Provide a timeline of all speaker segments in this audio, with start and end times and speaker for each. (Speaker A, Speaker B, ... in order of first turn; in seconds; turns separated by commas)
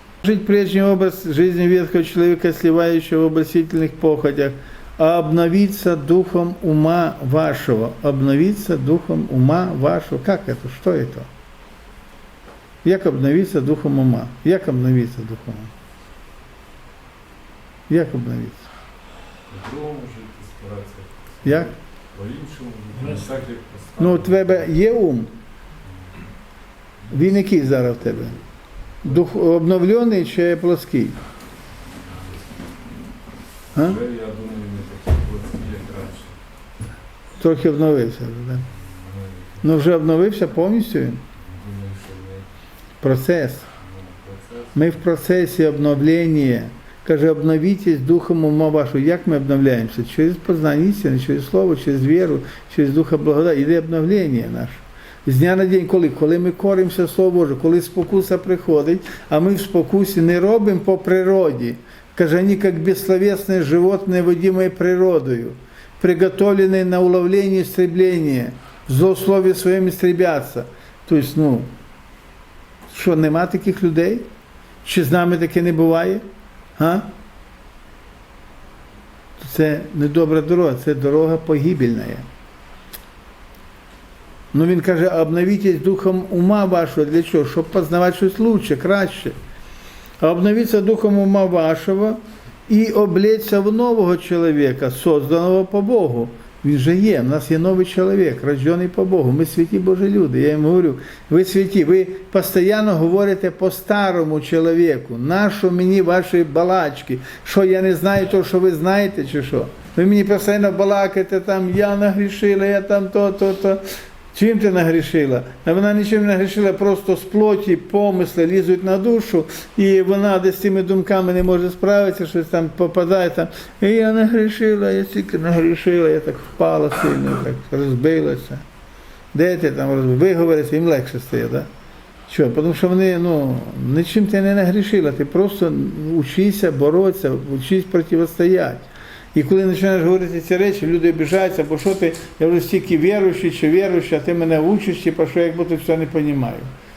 Speaker A: 0.2-11.3, Speaker A: 12.8-15.7, Speaker A: 17.9-18.7, Speaker B: 19.5-24.7, Speaker A: 21.4-21.7, Speaker A: 24.0-25.3, Speaker A: 27.1-28.4, Speaker A: 29.0-31.2, Speaker B: 31.9-32.7, Speaker B: 33.7-36.4, Speaker A: 37.4-38.6, Speaker B: 38.7-39.7, Speaker A: 39.6-41.2, Speaker B: 41.4-42.5, Speaker A: 43.0-43.7, Speaker B: 43.7-44.8, Speaker A: 44.7-71.7, Speaker A: 72.9-74.3, Speaker A: 74.8-76.2, Speaker A: 76.8-77.1, Speaker A: 79.4-82.2, Speaker A: 84.5-89.3, Speaker A: 90.2-113.8, Speaker A: 114.3-128.6, Speaker A: 129.3-131.7, Speaker A: 132.3-146.7